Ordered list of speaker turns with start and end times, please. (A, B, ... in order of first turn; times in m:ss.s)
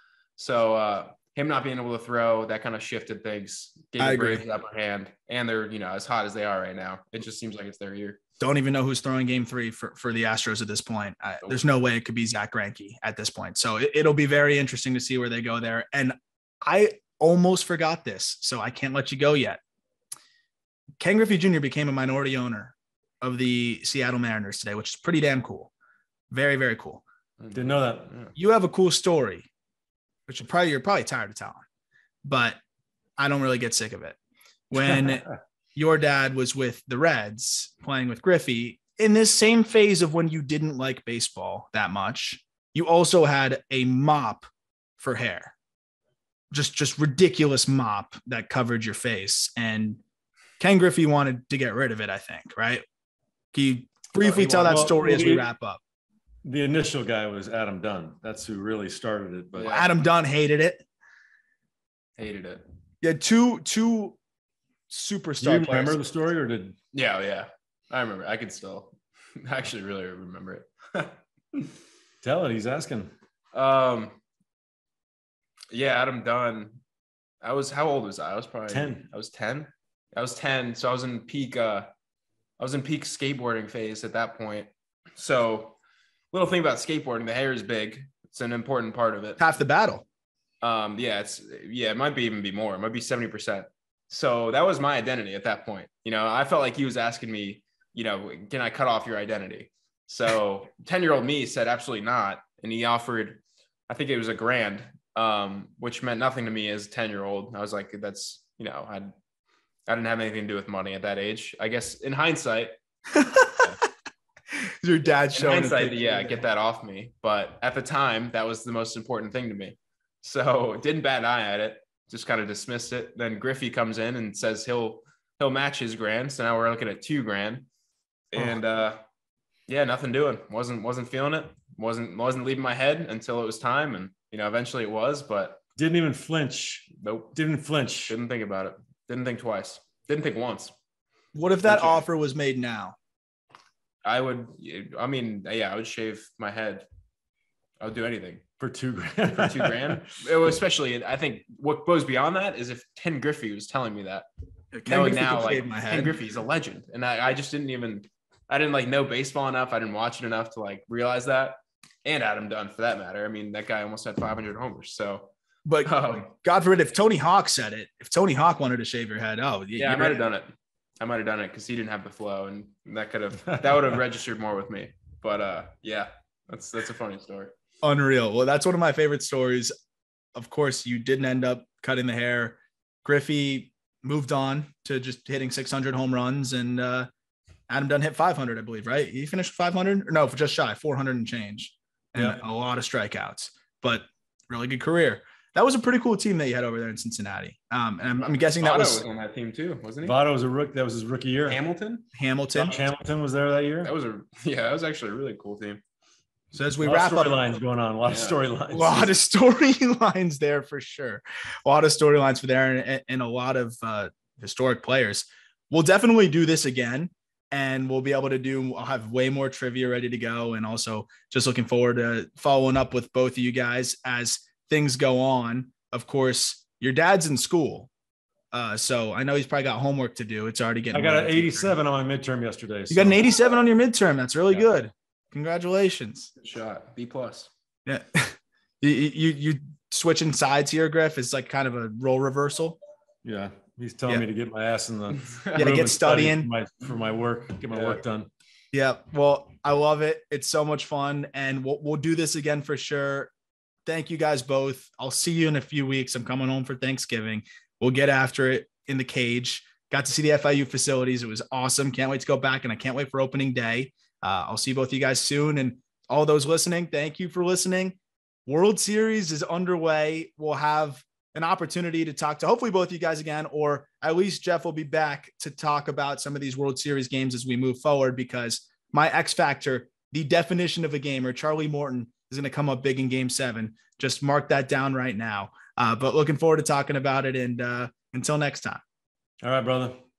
0:00.4-0:08.2 A
0:04.0-0:04.4 B
0:08.4-0:19.6 B
0:21.0-0:25.7 B
0:26.3-0:27.0 B
0:27.4-0:28.3 A
0:27.5-0:28.1 C
0:28.4-0:29.5 B
0:30.3-0:31.6 B
0:32.2-0:32.6 B
0:33.2-0:34.2 B
0:34.7-0:45.5 B
0:46.5-0:50.0 B
0:50.6-0:52.8 B
0:53.5-0:55.8 B
0:54.2-0:54.8 A
0:54.4-0:55.5 C
0:56.4-0:59.7 C
0:59.5-1:00.0 A
0:59.7-1:00.8 B
1:02.2-1:02.6 A
1:03.0-1:04.2 B
1:04.9-1:06.0 B
1:05.4-1:06.8 C
1:06.9-1:11.7 A
1:12.2-1:13.1 C
1:13.5-1:14.2 A
1:15.7-1:16.8 A
1:17.4-1:21.9 A
1:18.7-1:19.0 C
1:22.6-1:25.8 A
1:26.3-1:29.4 A
1:29.4-1:30.0 B
1:30.6-1:49.1 A
1:49.9-1:52.7 A
1:53.1-1:53.7 B
1:54.5-1:56.4 B
1:55.3-2:07.7 A
2:08.3-2:09.0 A
2:09.7-2:15.6 A
2:15.8-2:18.2 C
2:17.0-2:17.3 A
2:18.1-2:20.7 A
2:21.4-2:23.0 B
2:21.6-2:22.0 A
2:24.0-2:26.9 A
2:27.8-2:28.4 A
2:28.6-2:30.1 C
2:29.3-2:34.3 A
2:34.7-2:36.2 B
2:34.9-2:45.3 A
2:45.7-2:50.2 B
2:45.8-2:46.3 A
2:49.8-2:57.5 A
2:53.5-2:53.7 C
2:57.8-2:59.7 B
3:00.4-3:07.1 B
3:07.7-3:19.0 B
3:18.6-3:20.2 A
3:20.0-3:21.6 C
3:21.5-3:22.1 A
3:22.2-3:22.8 B
3:22.6-3:23.9 C
3:23.8-3:25.8 A
3:26.5-3:27.5 B
3:26.8-3:29.1 C
3:28.1-3:28.4 A
3:28.7-3:47.9 B
3:48.5-3:51.8 B
3:50.9-3:53.2 C
3:52.9-3:56.3 B
3:56.4-3:57.5 A
3:57.9-4:02.8 B
4:03.2-4:08.3 C
4:05.2-4:05.6 A
4:05.6-4:06.5 B
4:07.7-4:08.0 A
4:08.7-4:13.3 B
4:13.9-4:48.8 B
4:49.4-4:50.0 C